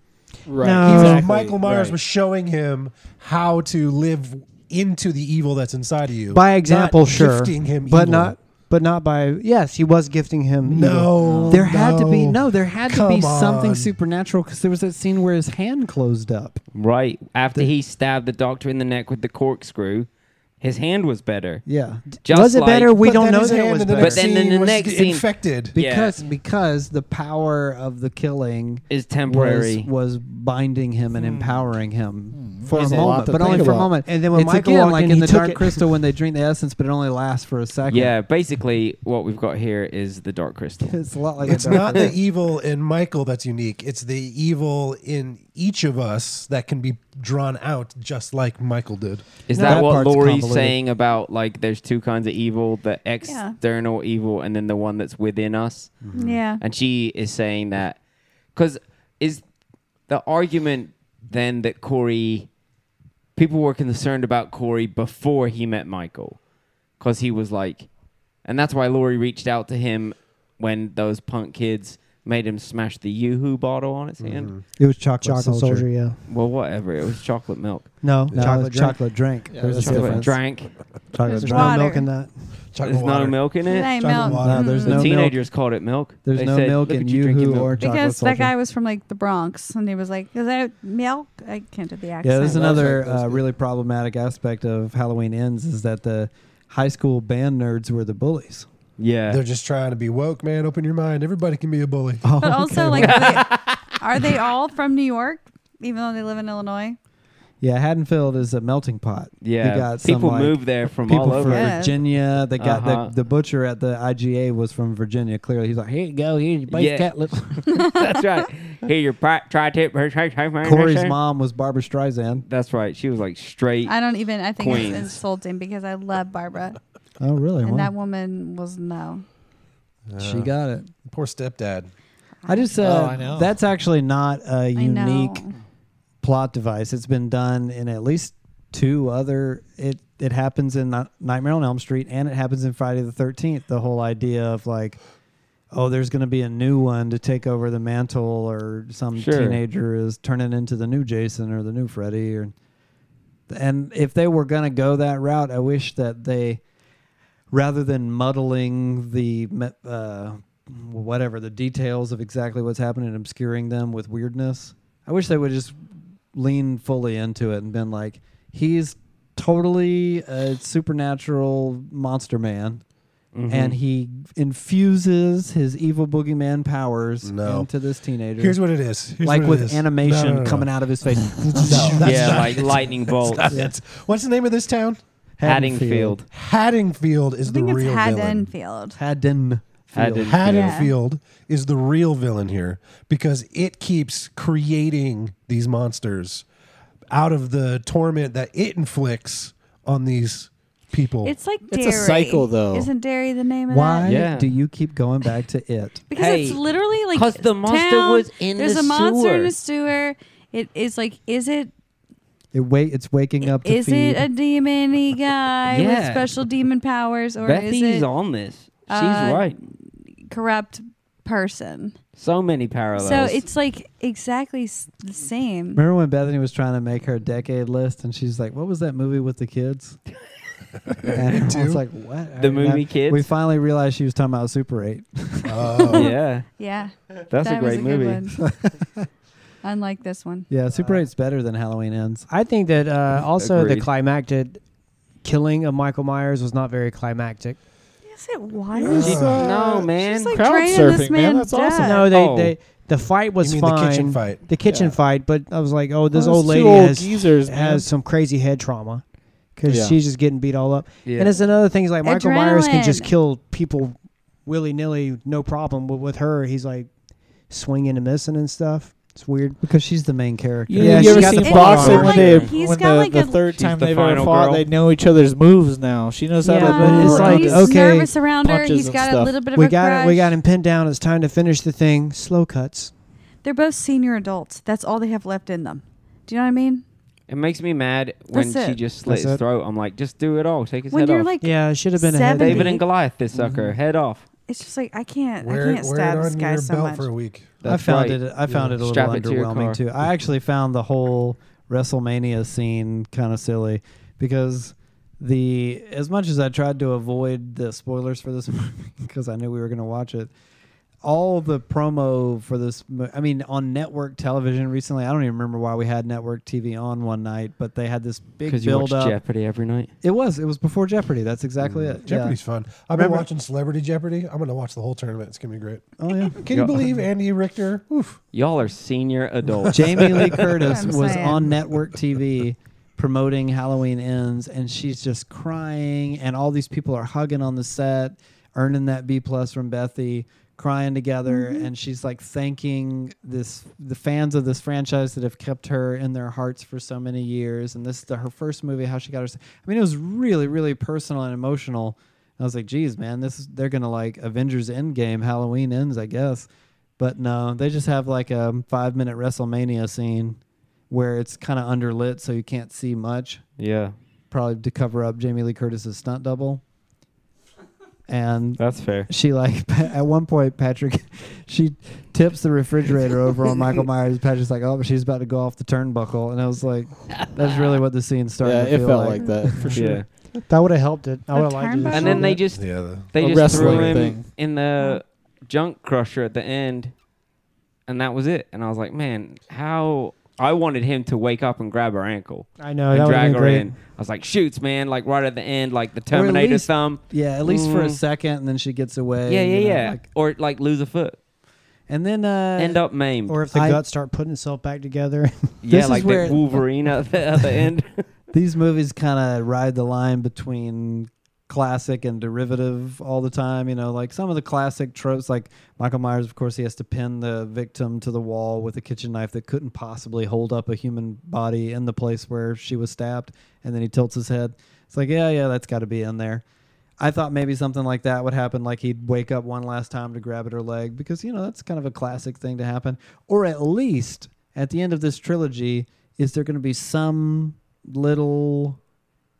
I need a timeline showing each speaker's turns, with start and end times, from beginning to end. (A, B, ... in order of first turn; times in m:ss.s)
0:00.5-0:02.0 A
0:00.6-0:01.3 B
0:00.8-0:08.4 C
0:06.3-0:11.1 B
0:10.6-0:13.9 C
0:11.2-0:11.6 A
0:11.5-0:16.6 D
0:16.8-0:20.1 E
0:20.6-0:21.6 E
0:21.7-0:22.1 D
0:22.2-0:23.0 E
0:22.2-0:24.2 B
0:23.0-0:25.8 C
0:24.0-0:26.2 E
0:25.7-0:38.1 D
0:28.9-0:29.9 E
0:32.3-0:34.0 A
0:32.6-0:35.9 B
0:37.9-0:42.1 E
0:40.8-0:42.2 D
0:41.4-0:49.3 C
0:49.5-0:56.0 E
0:49.5-0:49.9 F
0:49.6-0:50.8 D
0:53.2-0:53.6 F
0:56.0-0:56.4 D
0:56.1-0:56.4 C
0:56.1-0:56.6 F
0:56.6-0:58.0 E
0:58.6-0:59.4 E
1:00.1-1:02.5 E
1:03.4-1:06.4 E
1:07.0-1:07.9 E
1:08.4-1:14.6 E
1:14.2-1:14.6 C
1:14.8-1:15.9 D
1:15.2-1:16.2 B
1:16.3-1:17.9 E
1:18.0-1:19.0 B
1:18.3-1:20.4 D
1:19.5-1:20.2 A
1:19.8-1:20.3 B
1:19.9-1:20.8 E
1:21.1-1:22.2 D
1:21.3-1:22.1 F
1:21.3-1:22.3 B
1:22.7-1:24.8 C
1:22.8-1:23.9 E
1:23.7-1:25.1 F
1:24.4-1:25.4 D
1:24.8-1:27.8 E
1:26.2-1:28.5 D
1:27.8-1:32.8 F
1:32.2-1:38.7 D
1:32.5-1:33.4 A
1:39.0-1:39.4 E
1:39.3-1:42.2 C
1:42.2-1:43.2 D
1:42.4-1:47.0 F
1:43.0-1:44.0 E
1:47.6-1:57.6 D
1:49.4-1:51.8 E
1:51.4-1:52.0 F
1:52.6-1:53.1 E
1:56.7-2:01.2 E
2:00.6-2:02.4 D
2:02.4-2:03.9 E
2:03.9-2:06.8 F
2:04.6-2:05.2 E
2:07.2-2:07.9 D
2:07.6-2:09.2 F
2:10.1-2:10.5 C
2:10.2-2:10.9 D
2:11.0-2:11.9 C
2:12.5-2:15.4 D
2:12.8-2:13.6 A
2:14.8-2:15.5 F
2:16.2-2:25.0 D
2:25.7-2:32.5 D
2:29.2-2:29.6 E
2:33.5-2:36.6 D
2:37.5-2:45.8 D
2:46.3-2:52.8 D
2:53.3-2:53.8 E
2:53.5-2:58.6 D
2:57.2-2:57.7 C
2:58.4-3:00.7 C
2:59.2-3:02.5 D
3:01.5-3:02.0 B
3:01.6-3:05.0 C
3:02.0-3:03.6 E
3:05.4-3:06.3 D
3:05.4-3:06.2 E
3:06.3-3:08.5 C
3:07.5-3:09.0 F
3:09.0-3:10.4 D
3:09.9-3:10.9 E
3:10.2-3:16.4 C
3:10.5-3:10.9 F
3:17.1-3:21.4 C
3:21.2-3:24.1 F
3:21.7-3:22.9 A
3:23.7-3:26.0 D
3:24.0-3:24.5 E
3:26.1-3:31.7 F
3:26.1-3:26.6 E
3:27.1-3:29.5 E
3:32.5-3:34.3 D
3:33.4-3:38.1 F
3:35.7-3:36.3 E
3:37.4-3:39.6 E
3:38.9-3:39.6 F
3:40.3-3:42.0 F
3:42.2-3:43.4 E
3:43.0-3:45.8 F
3:45.8-3:50.0 D
3:50.9-3:51.8 C
3:51.1-3:55.8 D
3:52.4-3:53.3 E
3:55.4-3:56.2 C
3:55.9-3:58.4 F
3:55.9-3:56.5 E
3:57.3-3:58.2 E
3:58.4-3:59.0 D
3:59.6-4:00.5 F
4:00.5-4:02.3 D
4:02.3-4:04.6 B
4:03.4-4:03.9 E
4:05.2-4:07.6 B
4:08.0-4:09.4 F
4:08.8-4:12.0 A
4:08.9-4:09.8 C
4:09.0-4:10.4 E
4:10.0-4:12.1 F
4:11.8-4:19.0 B
4:12.0-4:12.6 E
4:13.4-4:14.4 C
4:14.6-4:15.0 A
4:16.1-4:17.9 A
4:19.6-4:26.9 B
4:19.7-4:20.0 A
4:21.0-4:21.4 E
4:22.0-4:23.1 F
4:27.5-4:29.6 B
4:29.6-4:32.2 D
4:30.7-4:39.5 A
4:30.7-4:32.3 B
4:31.2-4:33.4 F
4:32.1-4:32.5 E
4:33.6-4:34.7 E
4:36.4-4:38.1 B
4:36.4-4:40.4 F
4:39.5-4:42.9 B
4:43.4-4:46.8 F
4:47.3-4:51.3 E
4:48.3-4:48.8 F
4:49.0-4:49.4 B
4:50.9-4:52.8 F
4:51.4-4:52.7 B
4:52.4-4:54.2 E
4:53.4-4:53.7 D
4:54.5-4:57.1 F
4:55.4-4:57.6 C
4:57.6-4:59.8 E
4:57.6-5:10.3 D
5:11.0-5:19.2 D
5:18.5-5:19.9 E
5:20.0-5:22.4 D
5:21.6-5:28.2 C
5:23.0-5:23.3 D
5:26.0-5:26.4 D
5:26.5-5:26.8 E
5:28.3-5:30.3 E
5:29.7-6:00.4 D
5:30.6-5:31.5 F
5:41.3-5:41.7 F
6:00.9-6:03.4 D
6:03.6-6:04.0 E
6:04.3-6:06.6 D
6:08.1-6:19.8 D
6:08.6-6:09.1 E
6:18.4-6:20.0 A
6:19.2-6:19.4 F
6:19.7-6:20.3 E
6:20.5-6:22.4 B
6:21.3-6:22.4 F
6:21.9-6:26.9 E
6:22.5-6:23.1 C
6:23.2-6:24.3 A
6:27.9-6:38.0 E
6:32.6-6:33.8 B
6:36.1-6:40.0 D
6:39.3-6:41.2 E
6:41.9-6:42.8 D
6:42.6-6:43.4 E
6:43.3-6:45.6 B
6:43.5-6:43.8 D
6:45.6-6:48.0 E
6:45.7-6:46.6 D
6:48.3-7:06.4 D
7:07.0-7:18.8 D